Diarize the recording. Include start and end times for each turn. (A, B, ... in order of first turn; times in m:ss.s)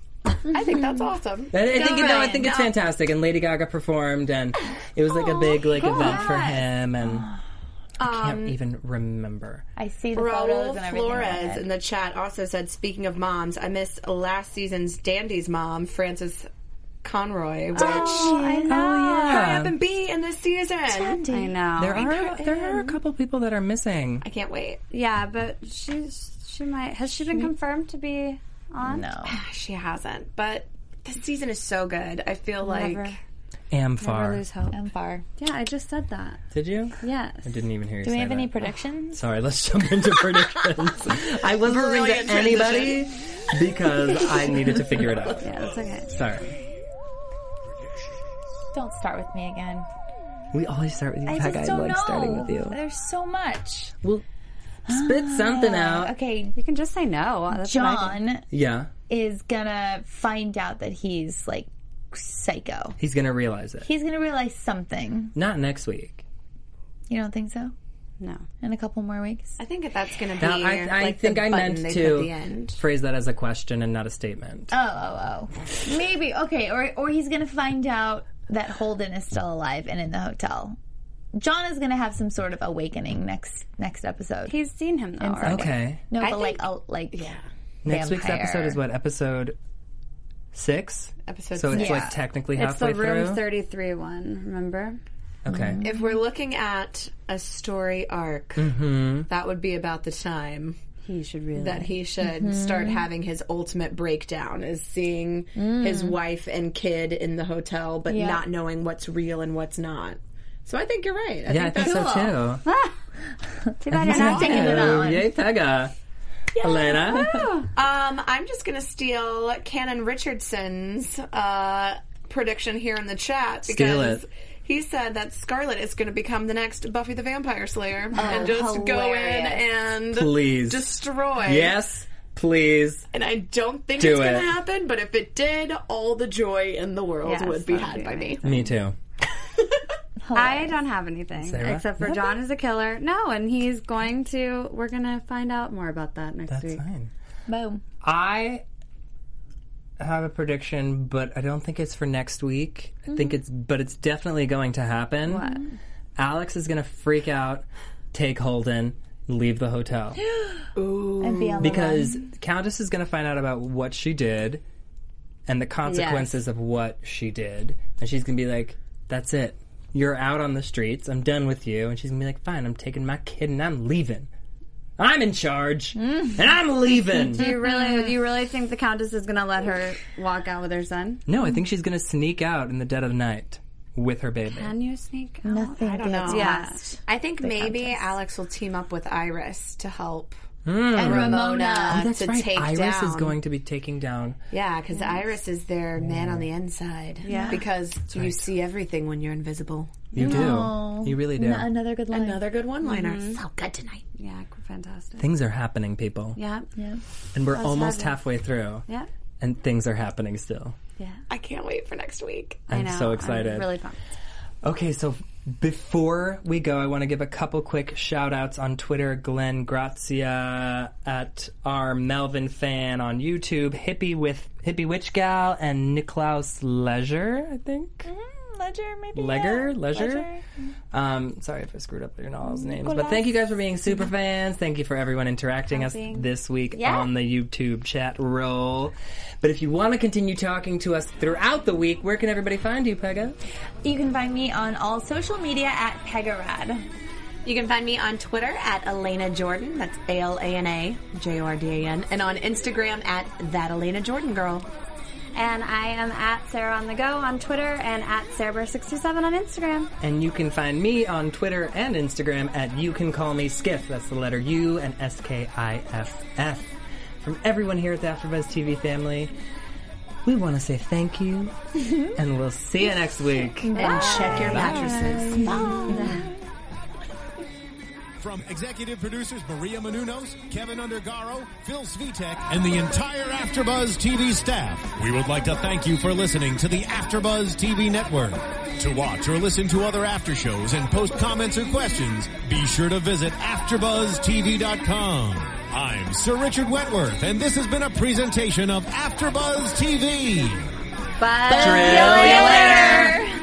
0:00.5-0:02.7 A
0:00.5-0:01.1 B
0:01.5-0:07.3 C
0:05.7-0:06.6 D
0:05.8-0:06.4 B
0:07.0-0:07.4 B
0:08.0-0:08.6 A
0:08.0-0:09.6 C
0:09.8-0:11.7 B
0:10.1-0:16.5 A
0:17.0-0:21.2 A
0:17.7-0:19.1 D
0:17.8-0:18.9 B
0:18.7-0:19.8 C
0:20.9-0:21.6 B
0:21.3-0:22.1 D
0:21.8-0:24.2 C
0:22.0-0:23.0 A
0:24.2-0:24.8 A
0:24.9-0:29.1 D
0:28.8-0:29.4 B
0:29.3-0:33.1 A
0:32.6-0:33.2 D
0:33.7-0:34.4 C
0:34.0-0:34.8 D
0:34.7-0:35.2 B
0:35.4-0:36.4 D
0:36.5-0:38.5 C
0:37.0-0:37.5 D
0:38.0-0:39.3 B
0:39.1-0:45.4 C
0:41.7-0:43.1 A
0:45.4-0:46.1 D
0:46.1-0:46.5 C
0:48.7-0:49.9 B
0:50.5-0:52.8 C
0:51.3-0:53.9 B
0:54.9-0:56.6 B
0:54.9-0:56.1 C
0:56.6-0:58.2 D
0:57.5-0:58.5 B
0:58.5-0:58.9 C
0:59.1-1:03.0 B
1:03.0-1:03.9 C
1:03.8-1:05.4 B
1:05.4-1:06.2 C
1:07.1-1:07.7 B
1:08.2-1:08.5 D
1:08.6-1:09.6 B
1:09.6-1:12.8 A
1:10.4-1:14.7 C
1:14.7-1:20.8 B
1:21.4-1:24.6 B
1:24.5-1:25.7 D
1:25.2-1:27.3 B
1:25.4-1:26.0 C
1:26.2-1:27.4 A
1:27.8-1:29.6 C
1:27.8-1:28.8 B
1:30.5-1:33.4 C
1:31.3-1:32.1 A
1:31.7-1:32.2 B
1:32.6-1:35.0 D
1:35.4-1:35.8 C
1:35.5-1:36.2 B
1:35.8-1:38.7 A
1:38.6-1:39.3 C
1:39.3-1:40.8 A
1:41.0-1:41.9 D
1:41.6-1:52.3 A
1:42.2-1:43.1 B
1:45.6-1:46.2 B
1:48.1-1:48.4 B
1:51.5-1:52.6 C
1:51.8-1:52.4 B
1:52.6-1:53.0 D
1:53.7-1:55.3 B
1:53.8-1:55.0 D
1:53.9-1:55.9 C
1:54.1-1:55.0 A
1:56.6-1:57.3 C
1:56.6-2:11.8 A
1:56.9-1:57.7 D
2:03.7-2:04.2 C
2:08.1-2:09.6 B
2:10.1-2:13.1 C
2:13.1-2:18.4 A
2:14.0-2:14.6 C
2:17.2-2:18.8 D
2:18.4-2:19.0 C
2:20.2-2:20.8 B
2:20.3-2:26.8 D
2:21.4-2:22.4 C
2:26.5-2:27.1 C
2:27.5-2:27.8 B
2:28.0-2:28.6 C
2:30.0-2:35.4 C
2:35.3-2:35.8 D
2:36.2-2:40.2 C
2:40.2-2:40.7 B
2:40.8-2:41.8 A
2:41.2-2:42.2 B
2:41.6-2:44.6 C
2:45.5-2:54.3 C
2:45.9-2:46.4 D
2:55.0-2:57.5 C
2:56.0-2:56.4 B
2:57.3-2:58.1 B
2:57.3-3:01.2 D
3:01.3-3:04.7 C
3:04.5-3:06.8 D
3:05.4-3:08.1 B
3:05.8-3:10.4 A
3:10.6-3:14.4 C
3:11.0-3:12.1 B
3:11.0-3:13.4 A
3:14.5-3:20.2 A
3:16.0-3:16.5 C
3:17.2-3:17.7 D
3:17.3-3:17.6 B
3:18.1-3:18.5 C
3:20.1-3:21.8 C
3:20.2-3:22.4 B
3:22.1-3:24.0 A
3:22.8-3:23.4 D
3:24.2-3:25.3 D
3:25.2-3:26.4 C
3:26.4-3:26.7 D
3:26.8-3:27.0 B
3:27.3-3:28.9 C
3:27.5-3:28.2 D
3:29.4-3:30.8 C
3:31.3-3:32.6 A
3:32.7-3:33.7 C
3:32.7-3:34.0 D
3:34.6-3:48.1 C
3:48.0-3:50.5 B
3:49.1-3:50.3 C
3:50.9-4:03.4 C
3:52.4-3:53.3 B
3:55.7-3:57.1 D
4:03.8-4:06.8 B
4:07.4-4:14.7 A
4:15.3-4:19.9 D
4:20.0-4:29.3 C
4:30.2-4:34.9 C
4:33.6-4:36.4 B
4:33.8-4:36.2 A
4:33.8-4:36.3 D
4:38.2-5:00.7 E
5:01.2-5:03.3 D
5:01.4-5:03.2 B
5:01.5-5:03.2 C